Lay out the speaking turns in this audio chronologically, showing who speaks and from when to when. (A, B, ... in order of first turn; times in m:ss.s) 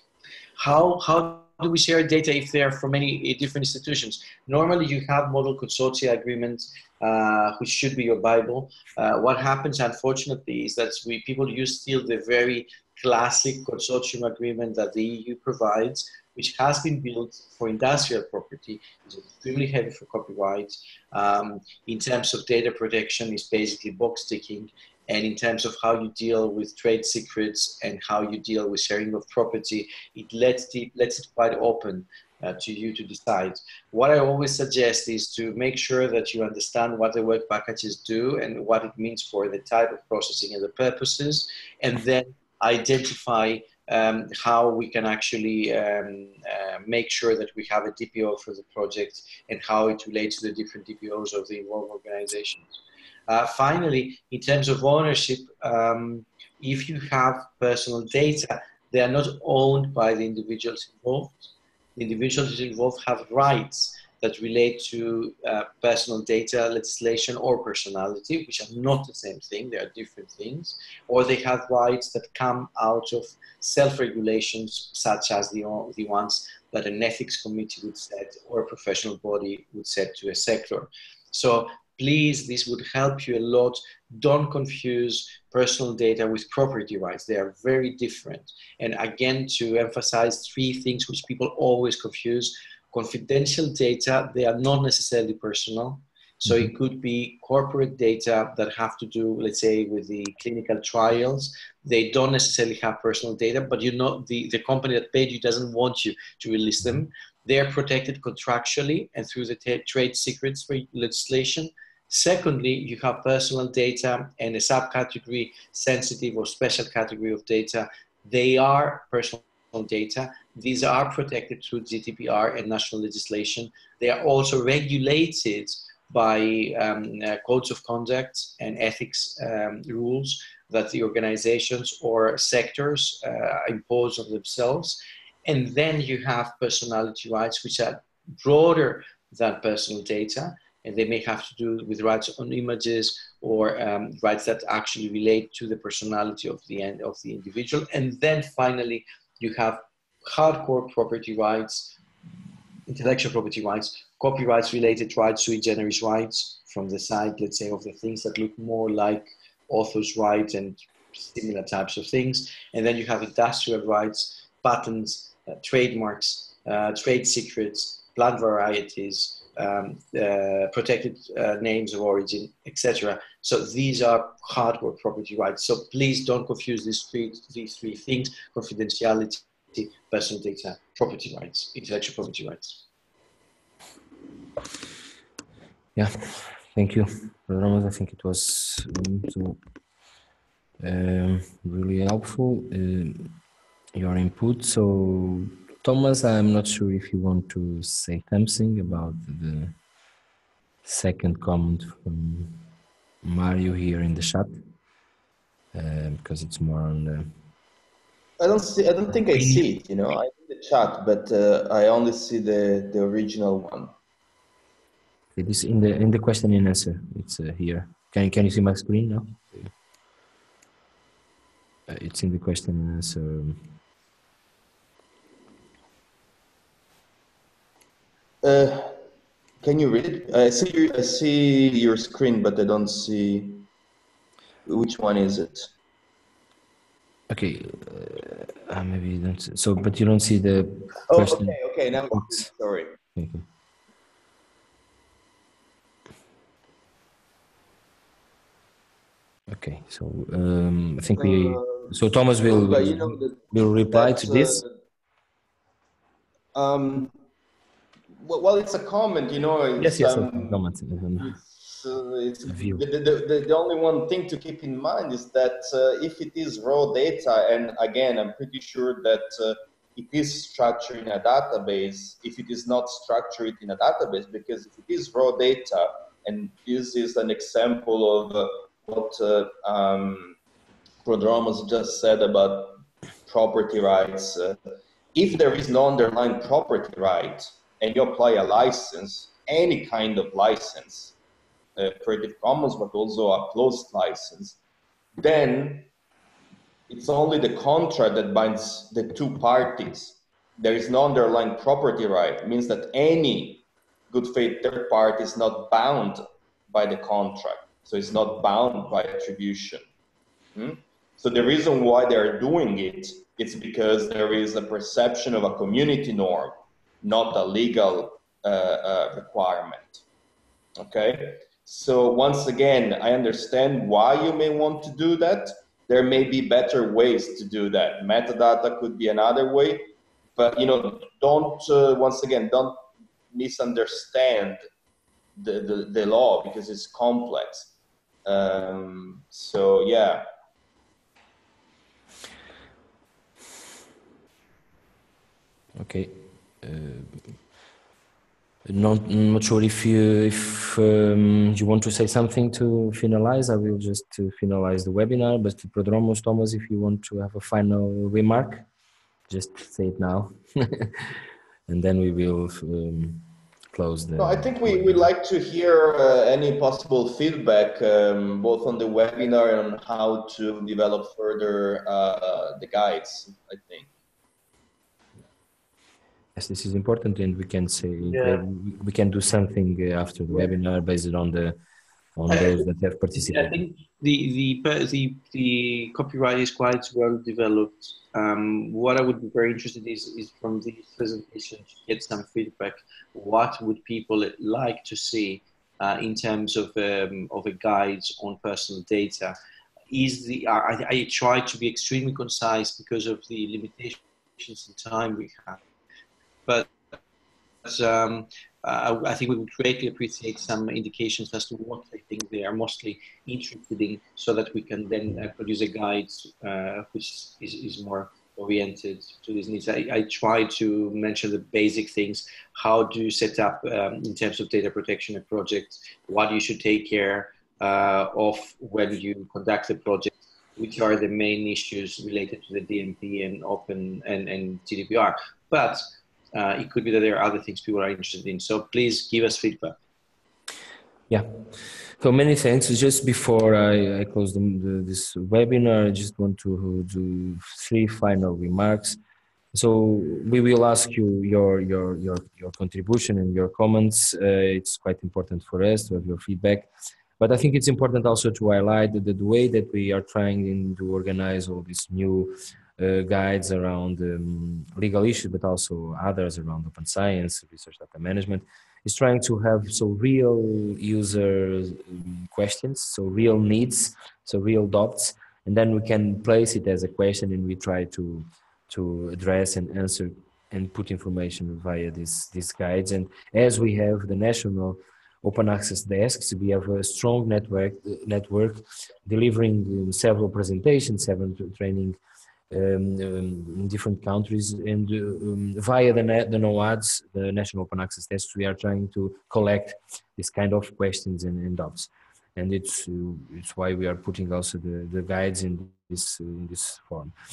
0:00.6-2:32.0 A
2:32.9-3:02.8 A
3:06.0-3:09.6 B
3:10.8-3:13.4 B
3:13.9-3:19.8 B
3:20.8-3:22.6 B
3:23.2-3:24.5 B
3:25.7-3:27.3 B
3:28.4-3:33.9 C
3:29.3-3:29.6 B
3:35.4-3:39.7 B
3:41.9-3:43.6 B
3:48.4-3:49.0 C
3:49.6-3:53.7 C
3:54.6-3:55.7 C
3:57.3-4:01.6 B
4:01.1-4:02.9 C
4:02.1-4:02.4 B
4:03.2-4:03.5 B
4:09.5-4:14.6 B
4:11.2-4:11.9 C
4:12.4-4:14.7 C
4:16.5-4:17.1 C
4:18.2-4:20.6 C
4:19.8-4:21.3 B
4:21.2-4:40.4 C
4:22.5-4:22.8 B
4:41.0-4:44.6 C
4:45.1-4:51.2 C
4:51.8-4:54.6 C
4:55.2-4:55.9 C
4:56.9-5:09.8 C
5:10.5-5:20.0 C
5:20.8-5:32.8 C
5:33.3-5:34.6 C
5:35.4-5:37.7 C
5:38.2-5:40.2 C
5:45.8-5:47.4 B
5:48.6-5:58.7 B
5:59.3-6:01.1 B
6:01.7-6:05.1 B
6:04.2-6:13.9 C
6:16.4-6:21.6 B
6:18.1-6:18.4 A
6:22.2-6:23.6 B
6:22.3-6:22.6 A
6:23.2-6:39.4 A
6:39.9-6:45.6 A
6:46.5-6:47.0 A
6:47.6-7:19.8 A
7:21.1-7:29.0 B
7:29.5-8:12.0 B
8:12.5-8:27.1 B